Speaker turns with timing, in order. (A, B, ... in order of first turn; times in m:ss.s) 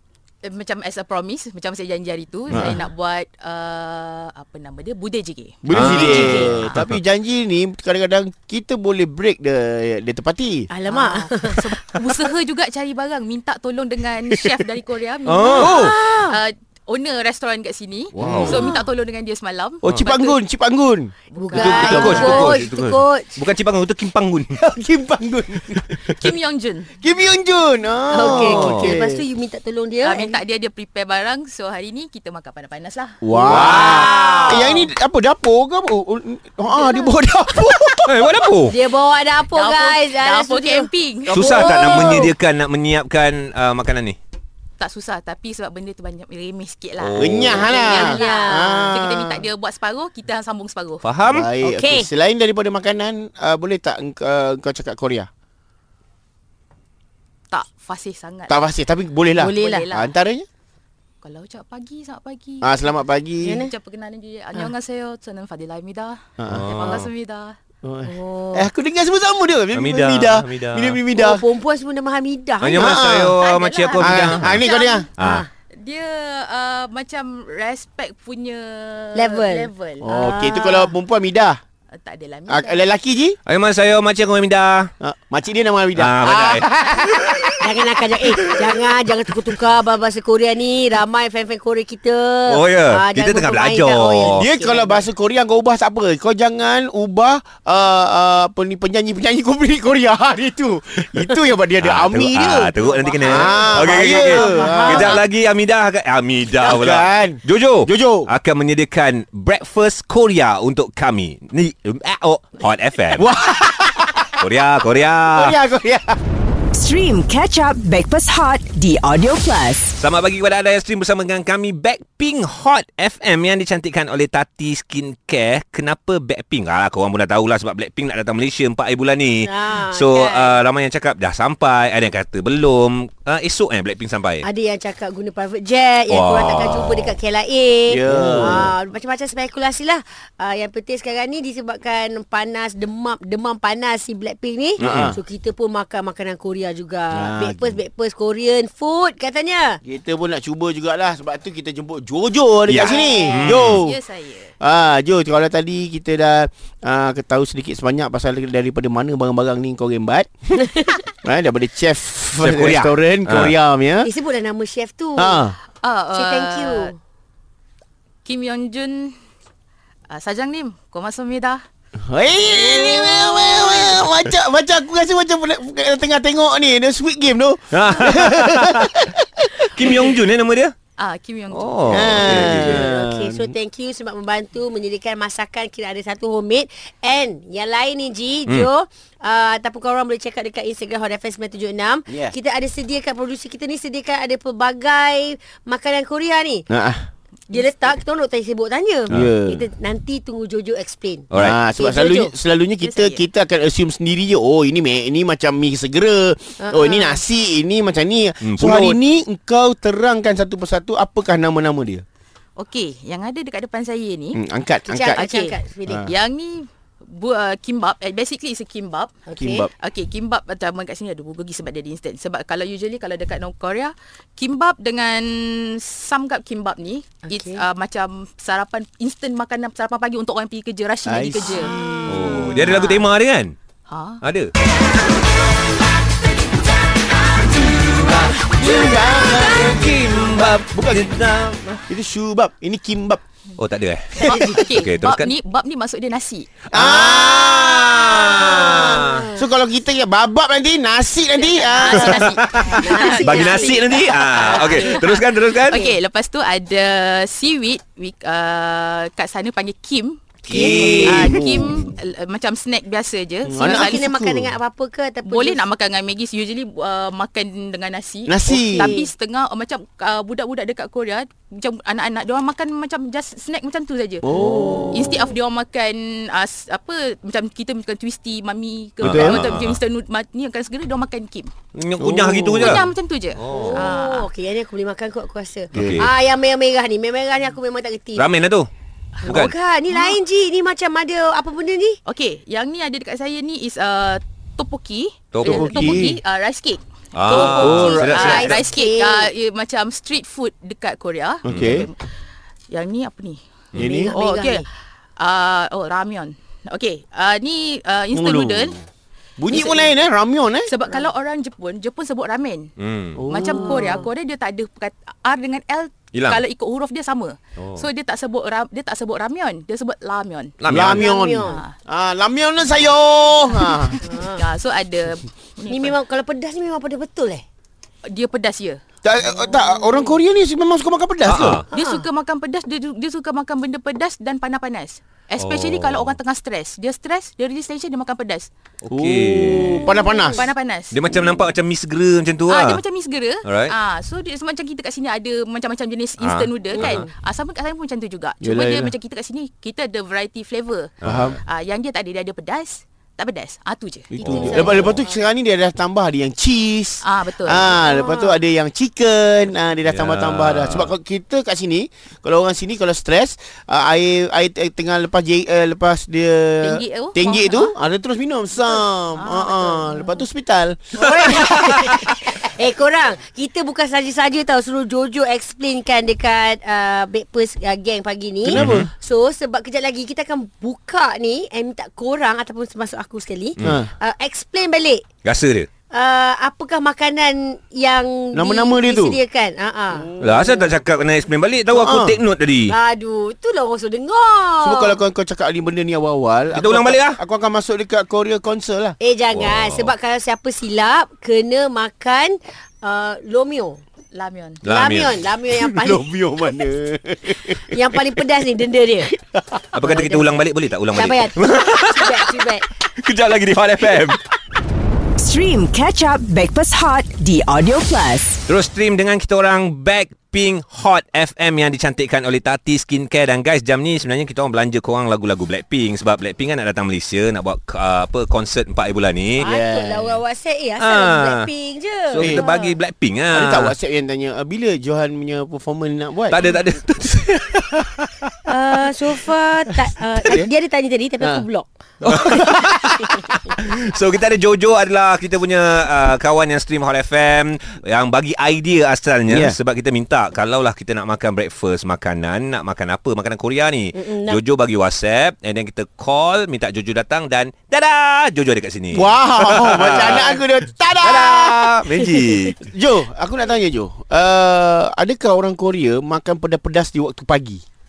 0:00.4-0:06.8 A
0:02.5-0:02.8 B
0:05.6-0:10.7 B
0:05.7-0:07.0 C
0:05.8-0:06.5 D
0:10.7-0:11.6 D
0:10.9-0:20.4 A
0:15.2-0:15.8 C
0:15.5-0:15.9 B
0:15.7-0:16.4 D
0:18.2-0:18.6 B
0:18.2-0:18.6 C
0:18.3-0:18.8 D
0:19.8-0:22.6 B
0:21.3-0:22.4 A
0:21.4-0:23.3 D
0:21.5-0:24.5 C
0:24.6-0:26.0 B
0:26.2-0:26.9 A
0:27.0-0:29.2 B
0:28.1-0:30.4 D
0:28.2-0:28.9 C
0:30.0-0:33.2 A
0:33.2-0:38.3 B
0:33.3-0:34.7 D
0:33.4-0:34.6 C
0:33.9-0:34.4 A
0:36.7-0:37.1 A
0:38.1-0:38.8 C
0:38.6-0:42.3 D
0:39.5-0:42.0 A
0:41.3-0:44.2 C
0:41.4-0:42.1 B
0:44.8-0:51.0 A
0:47.0-0:47.7 C
0:47.2-0:49.4 B
0:47.7-0:49.0 D
0:51.0-0:51.4 C
0:51.3-0:55.3 B
0:51.6-0:52.1 D
0:57.5-0:58.6 A
0:58.5-1:00.4 B
0:59.4-0:59.8 D
0:59.5-1:00.1 A
1:01.2-1:02.9 A
1:02.6-1:03.6 B
1:03.4-1:03.7 D
1:03.5-1:07.6 A
1:06.4-1:07.1 B
1:06.5-1:07.1 C
1:07.8-1:11.4 B
1:08.0-1:08.7 D
1:09.7-1:11.0 C
1:11.1-1:13.0 D
1:12.6-1:14.5 C
1:12.7-1:13.4 B
1:13.4-1:15.1 A
1:14.0-1:15.1 B
1:15.2-1:15.4 C
1:15.2-1:15.5 D
1:15.8-1:20.0 A
1:19.1-1:20.9 D
1:20.0-1:21.6 B
1:21.9-1:22.8 A
1:22.5-1:23.4 B
1:23.4-1:24.9 C
1:25.0-1:27.5 B
1:26.0-1:27.5 C
1:27.6-1:35.1 D
1:28.3-1:28.6 C
1:32.5-1:34.4 C
1:34.3-1:45.2 B
1:41.8-1:53.2 C
1:42.8-1:43.8 A
1:43.2-1:45.2 D
1:46.6-1:48.3 B
1:53.1-1:54.2 B
1:54.4-1:55.6 C
1:55.3-1:56.2 B
1:56.7-2:00.0 E
2:00.0-2:14.5 C
2:09.4-2:10.6 D
2:14.4-2:29.8 D
2:16.1-2:17.2 C
2:17.9-2:18.7 B
2:18.1-2:18.5 C
2:24.8-2:25.1 C
2:24.8-2:25.2 B
2:27.1-2:27.8 B
2:29.8-2:34.0 B
2:32.7-2:33.8 C
2:32.8-2:33.6 D
2:33.7-2:34.5 A
2:34.6-2:40.3 B
2:40.6-2:41.0 D
2:41.2-2:44.1 B
2:42.4-2:43.5 C
2:44.0-2:45.4 D
2:45.2-2:45.6 B
2:45.8-2:46.9 A
2:46.1-2:46.9 D
2:48.2-2:49.2 A
2:50.1-2:51.6 A
2:52.1-3:00.1 B
2:52.5-2:53.9 A
2:57.7-2:58.9 C
2:59.6-3:00.8 C
3:01.0-3:02.1 A
3:01.5-3:02.9 C
3:01.9-3:03.5 B
3:02.2-3:16.6 D
3:12.1-3:12.3 B
3:16.7-3:17.0 B
3:17.5-3:17.9 A
3:17.5-3:22.3 D
3:19.1-3:19.6 B
3:21.3-3:21.6 C
3:21.3-3:32.0 B
3:22.8-3:23.2 A
3:26.6-3:27.2 D
3:28.4-3:29.0 C
3:32.6-3:34.4 A
3:34.3-3:35.2 B
3:34.9-3:36.0 D
3:35.1-3:39.1 A
3:39.3-3:39.7 D
3:39.4-3:39.7 B
3:39.8-3:51.7 A
3:47.3-3:47.6 D
3:51.0-3:52.7 B
3:52.1-3:53.5 C
3:52.6-3:53.0 A
3:53.9-3:54.2 A
3:54.2-3:54.5 C
3:58.5-4:01.1 B
3:59.4-4:01.8 C
4:01.9-4:03.2 B
4:03.6-4:05.3 C
4:04.2-4:06.5 A
4:04.2-4:04.6 D
4:06.7-4:12.3 B
4:06.7-4:09.2 C
4:08.2-4:09.4 D
4:11.4-4:20.5 A
4:12.0-4:15.8 C
4:12.6-4:15.1 D
4:20.5-4:21.4 C
4:20.5-4:21.8 B
4:20.5-4:21.3 D
4:21.0-4:24.1 A
4:23.4-4:24.6 B
4:23.6-4:25.6 D
4:25.2-4:34.2 A
4:28.3-4:28.9 B
4:28.7-4:29.1 D
4:34.2-4:35.2 B
4:34.9-4:41.5 A
4:39.0-4:39.8 C
4:39.0-4:39.4 B
4:41.7-4:42.8 C
4:42.0-4:42.8 B
4:42.6-4:44.3 A
4:43.4-4:43.9 C
4:43.5-4:48.3 D
4:45.7-4:46.1 C
4:45.8-4:46.0 B
4:48.2-4:48.7 C
4:49.2-4:49.5 C
4:49.2-4:52.0 D
4:49.9-4:50.2 A
4:52.0-5:02.0 A
4:55.3-4:56.0 C
4:55.4-4:56.2 B
4:57.1-4:58.6 C
4:57.4-4:59.3 D
4:57.5-4:58.4 B
5:01.4-5:01.9 B
5:01.5-5:01.8 C
5:02.7-5:03.4 A
5:03.8-5:04.1 B
5:03.8-5:04.6 D
5:04.1-5:04.6 A
5:05.2-5:08.8 A
5:08.1-5:08.8 B
5:09.4-5:10.7 B
5:09.5-5:09.9 A
5:10.7-5:12.7 A
5:12.8-5:13.3 C
5:13.2-5:14.0 B
5:13.3-5:20.6 A
5:13.4-5:14.1 D
5:16.1-5:16.4 C
5:17.6-5:17.8 C
5:20.6-5:21.1 C
5:20.6-5:24.0 B
5:20.9-5:21.6 D
5:21.4-5:21.7 A
5:23.6-5:25.9 A
5:24.0-5:24.4 D
5:25.7-5:27.4 D
5:28.0-5:28.8 A
5:29.0-5:31.6 B
5:29.3-5:30.2 D
5:31.2-5:31.7 C
5:31.7-5:38.5 A
5:31.7-5:32.0 D
5:35.4-5:36.2 C
5:38.8-5:39.9 C
5:38.9-5:40.5 B
5:39.8-5:41.0 A
5:39.9-5:40.4 D
5:40.9-5:42.8 C
5:42.5-5:54.6 A
5:43.4-5:43.7 C
5:46.2-5:47.0 C
5:48.4-5:48.9 B
5:51.0-5:51.4 C
5:51.0-5:51.4 B
5:54.1-6:12.0 B
5:54.2-5:55.1 D
5:54.3-5:54.9 C
5:57.0-5:57.7 A
5:57.7-5:58.4 D
5:59.9-6:00.9 C
6:06.6-6:07.7 A
6:09.2-6:10.2 A
6:11.0-6:25.0 D
6:11.5-6:11.9 C
6:18.5-6:18.9 C
6:18.5-6:18.9 B
6:23.6-6:23.9 B
6:25.2-6:25.7 C
6:25.9-6:30.1 D
6:28.3-6:29.2 B
6:30.0-6:30.7 B
6:30.2-6:32.8 C
6:31.7-6:32.2 B
6:32.7-6:35.0 D
6:34.6-6:39.0 B
6:36.5-6:37.2 C
6:39.0-6:43.8 D
6:39.3-6:39.9 C
6:44.1-6:44.6 A
6:44.6-6:45.3 C
6:44.6-6:46.1 D
6:45.7-6:47.8 B
6:47.7-6:49.1 D
6:49.3-6:49.6 B
6:49.7-6:54.2 C
6:49.8-6:50.3 D
6:50.9-6:52.6 D
6:55.2-6:58.4 E
6:58.5-7:09.5 C
7:09.4-7:12.7 D
7:09.4-7:10.2 B
7:10.8-7:11.5 C
7:12.1-7:13.7 C
7:12.2-7:12.4 B
7:13.3-7:16.4 B
7:16.3-7:17.7 C
7:18.5-7:21.7 D
7:22.0-7:22.9 B
7:22.0-7:40.4 C
7:29.3-7:29.6 B
7:33.9-7:34.4 D
7:38.9-7:41.6 B
7:41.0-7:42.6 C
7:42.6-7:47.6 B